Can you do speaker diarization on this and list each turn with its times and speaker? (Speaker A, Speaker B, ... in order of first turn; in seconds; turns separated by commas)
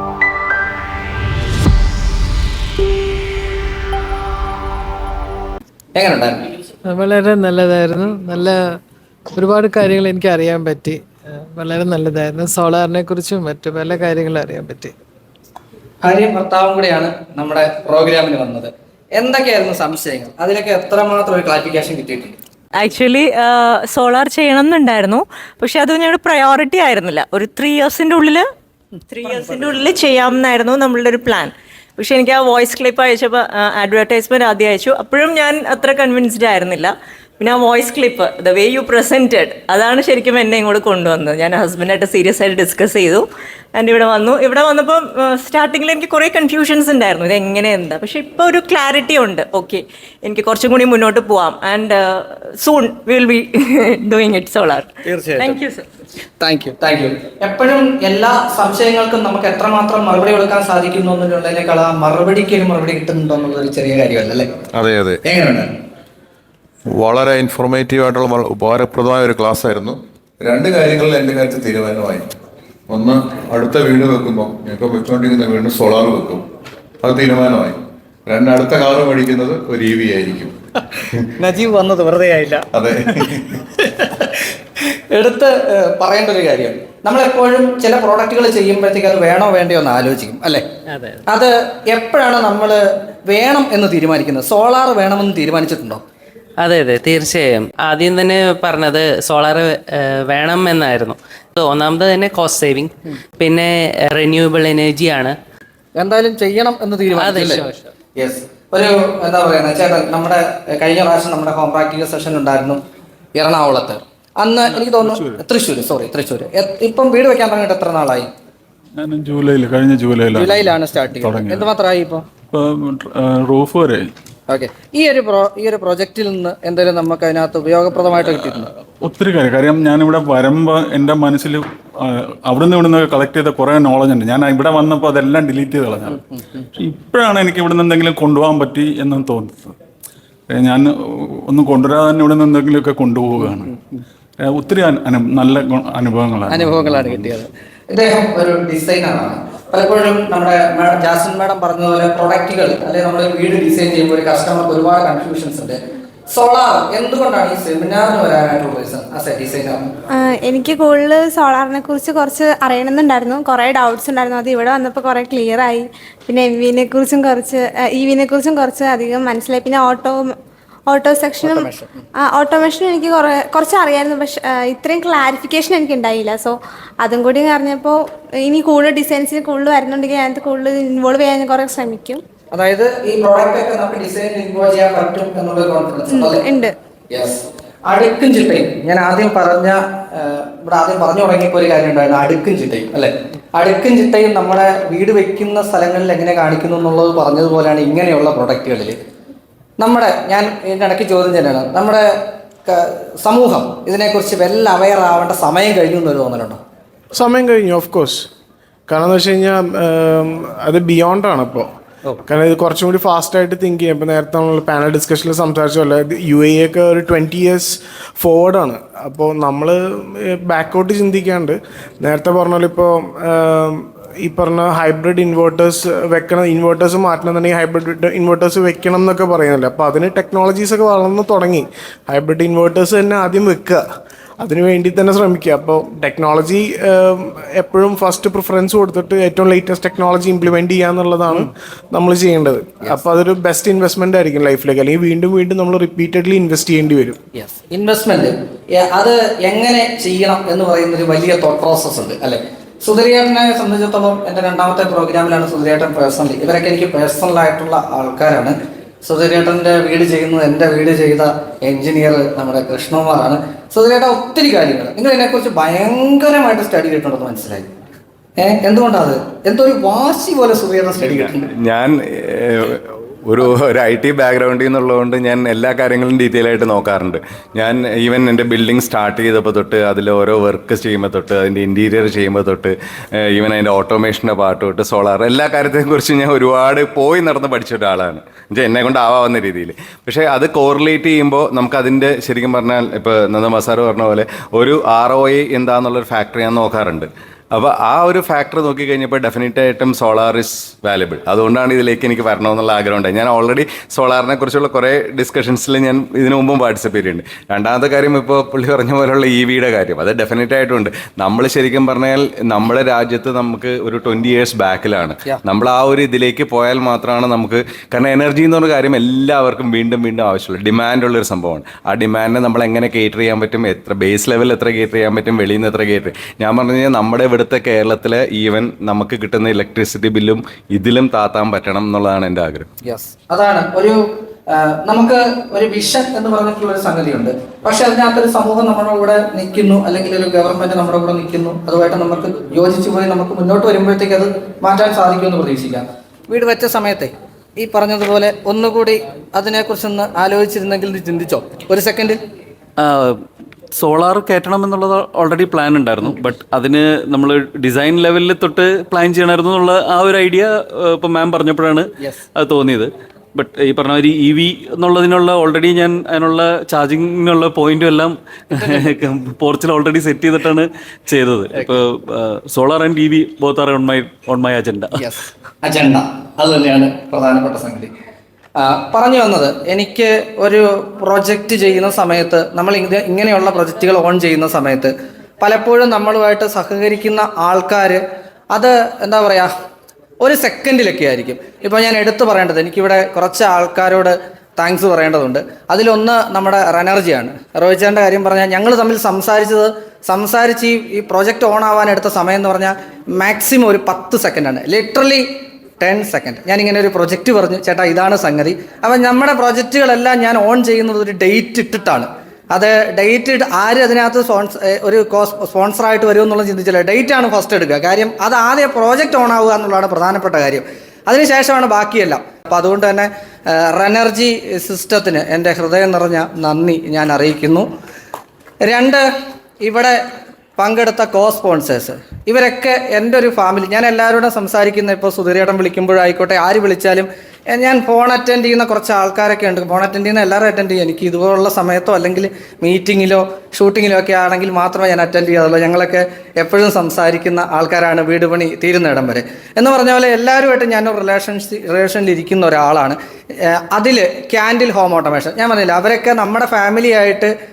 Speaker A: 6.0-6.5, Speaker B: 6.9-8.6, Speaker B: 9.3-14.9, Speaker A: 16.0-22.4, Speaker C: 22.8-28.5, Speaker C: 29.1-55.9, Speaker A: 55.1-55.5, Speaker A: 56.4-64.5, Speaker D: 64.8-65.2, Speaker A: 65.2-65.7, Speaker D: 66.9-72.3, Speaker D: 72.9-76.5, Speaker D: 77.0-80.5, Speaker A: 81.4-82.7, Speaker D: 82.7-83.6, Speaker A: 83.8-84.3, Speaker A: 85.1-90.6, Speaker A: 91.3-96.0, Speaker E: 96.6-102.9, Speaker E: 103.4-105.3, Speaker A: 106.0-107.7, Speaker E: 107.2-107.7, Speaker A: 108.2-112.8, Speaker A: 113.3-118.3, Speaker F: 119.0-120.6, Speaker A: 120.3-122.2, Speaker F: 121.2-121.6, Speaker F: 122.5-124.1, Speaker A: 124.5-128.7, Speaker F: 129.0-136.2, Speaker F: 136.8-139.8, Speaker F: 140.5-143.7, Speaker F: 144.4-146.7, Speaker A: 146.5-155.8, Speaker A: 156.3-159.8, Speaker G: 160.1-170.3, Speaker G: 170.9-182.2, Speaker A: 171.4-172.0, Speaker A: 182.5-186.4, Speaker G: 186.1-186.7, Speaker A: 187.1-199.0, Speaker A: 199.8-202.1, Speaker A: 202.7-206.6, Speaker H: 207.2-208.3, Speaker H: 208.9-211.7, Speaker H: 212.2-233.8, Speaker H: 234.4-247.2, Speaker A: 247.3-267.7, Speaker A: 268.4-271.5, Speaker I: 271.1-332.7, Speaker A: 332.8-334.0, Speaker A: 334.5-352.2, Speaker J: 352.8-353.1, Speaker J: 353.8-375.1, Speaker A: 374.9-377.9, Speaker A: 378.6-388.0, Speaker A: 388.5-389.5, Speaker A: 390.2-405.3, Speaker A: 405.8-427.7, Speaker A: 428.6-429.1, Speaker A: 429.6-430.0, Speaker A: 430.6-453.0, Speaker A: 453.6-457.3